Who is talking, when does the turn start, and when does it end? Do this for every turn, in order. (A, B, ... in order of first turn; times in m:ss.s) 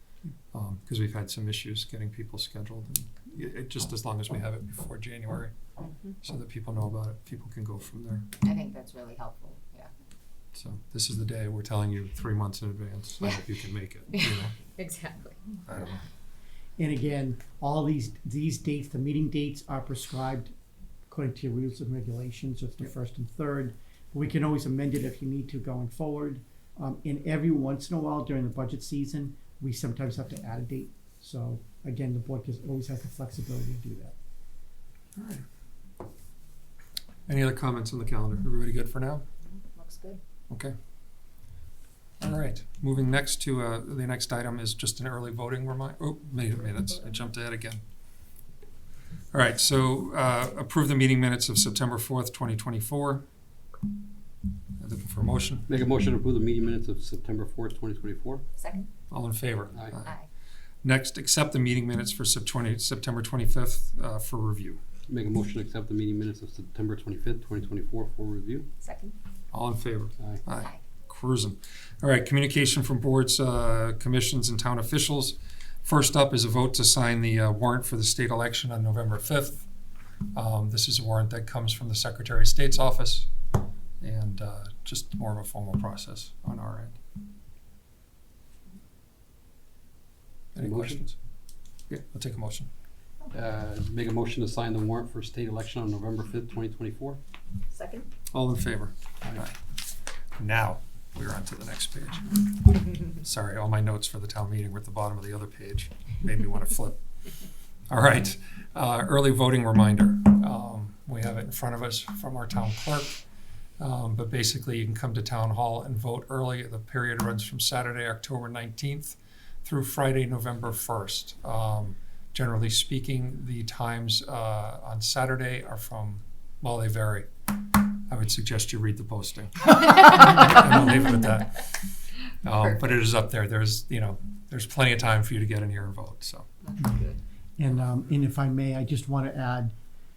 0:00.5-0:05.5 A
0:05.8-0:06.1 B
0:06.2-0:08.4 A
0:08.4-0:09.9 B
0:10.5-0:14.5 A
0:14.2-0:15.6 B
0:15.6-0:16.0 A
0:16.8-0:20.5 C
0:21.1-0:34.1 C
0:35.2-0:35.4 A
0:37.3-0:39.2 A
0:39.4-0:40.2 B
0:42.2-0:47.8 A
0:49.3-0:53.2 A
0:54.8-0:55.7 A
0:55.7-0:58.4 D
0:58.6-0:58.9 B
0:59.1-1:00.2 A
1:00.8-1:04.8 A
1:05.1-1:08.7 D
1:08.8-1:09.1 B
1:09.5-1:19.7 A
1:10.5-1:10.8 B
1:20.3-1:23.3 A
1:24.0-1:27.0 A
1:30.5-1:31.2 A
1:30.6-1:31.0 D
1:31.9-1:32.7 A
1:33.3-1:37.2 D
1:37.7-1:38.1 B
1:38.3-1:39.6 A
1:40.4-1:47.0 A
1:47.9-1:53.2 A
1:53.8-2:11.8 A
2:12.4-2:16.5 A
2:16.6-2:17.2 B
2:17.6-2:19.7 C